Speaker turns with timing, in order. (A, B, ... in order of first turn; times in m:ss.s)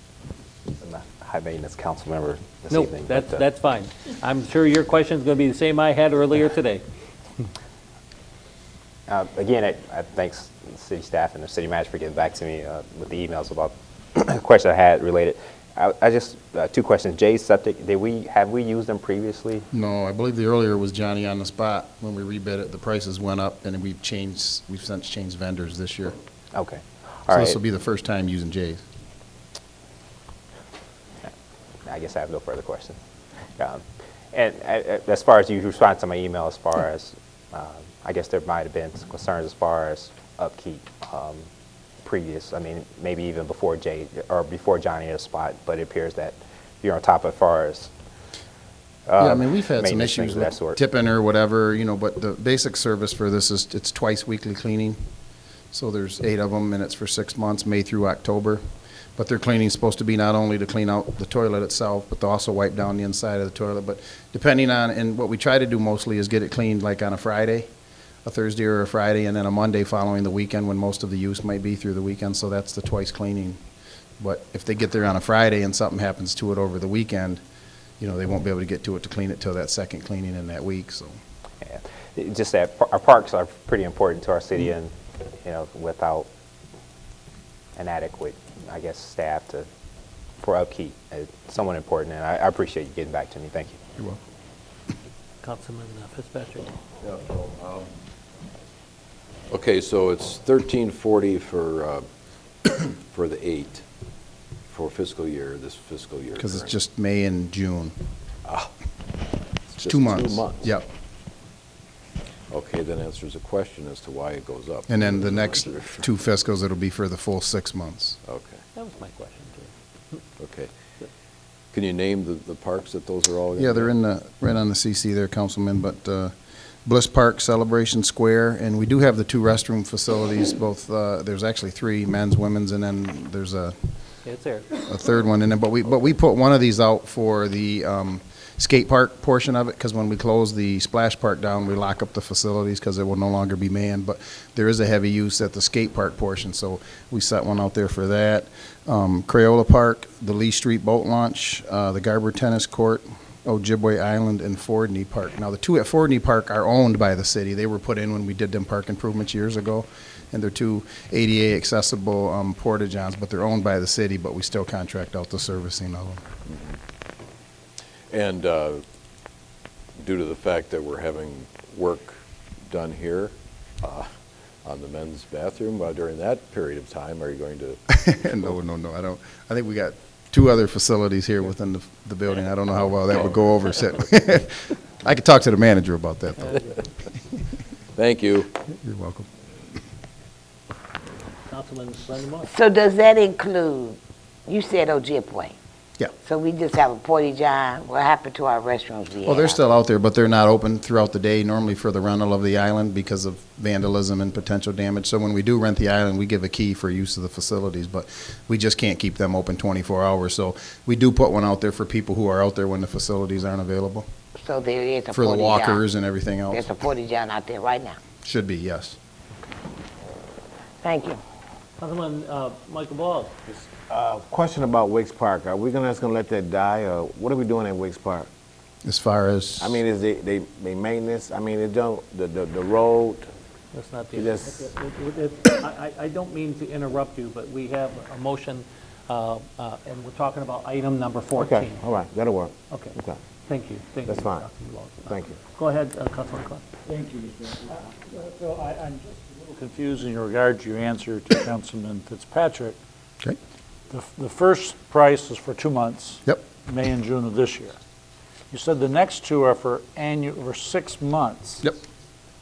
0:00.8-0:03.4 A
0:02.7-0:06.8 B
0:09.1-0:19.7 A
0:19.7-0:26.2 C
0:26.5-0:27.6 A
0:27.3-0:28.8 C
0:31.8-0:33.0 A
0:33.6-0:41.5 A
0:42.0-0:47.9 A
0:49.1-0:50.8 A
0:49.2-0:55.0 C
0:55.7-0:58.6 C
0:59.2-1:07.7 C
1:08.2-1:13.6 C
1:14.2-1:17.4 C
1:18.0-1:21.2 C
1:21.6-1:26.3 A
1:27.8-1:29.7 A
1:30.4-1:33.8 A
1:35.4-1:36.7 B
1:37.0-1:37.9 D
1:39.5-1:42.0 D
1:42.6-1:43.8 D
1:44.7-1:46.7 D
1:46.4-1:48.0 C
1:48.5-1:48.7 D
1:49.7-1:50.7 D
1:49.8-1:50.9 C
1:52.5-1:56.1 D
1:54.9-1:58.2 C
1:58.3-1:58.6 D
1:58.7-1:59.7 B
2:00.4-2:00.7 D
2:01.7-2:03.9 D
2:03.6-2:06.3 C
2:06.8-2:13.8 C
2:14.2-2:14.7 B
2:14.9-2:46.2 C
2:46.5-2:46.8 D
2:48.1-2:48.8 D
2:50.0-2:54.1 D
2:54.6-2:58.4 D
2:57.9-3:06.8 C
3:08.0-3:08.5 D
3:08.7-3:09.3 C
3:11.5-3:12.5 B
3:12.5-3:15.5 E
3:16.2-3:19.6 E
3:19.2-3:34.1 C
3:34.4-3:35.8 E
3:35.1-3:36.6 C
3:36.5-3:38.0 E
3:38.2-3:39.0 C
3:40.8-3:41.2 E
3:41.8-3:43.4 B
3:43.5-3:48.3 F
3:48.8-3:49.8 C
3:49.6-3:53.3 F
3:53.7-4:01.8 B
3:54.1-3:54.7 F
4:01.4-4:03.2 F
4:02.7-4:06.6 B
4:04.1-4:04.5 F
4:05.1-4:05.4 F
4:06.9-4:12.8 G
4:13.9-4:17.8 G
4:18.5-4:21.6 G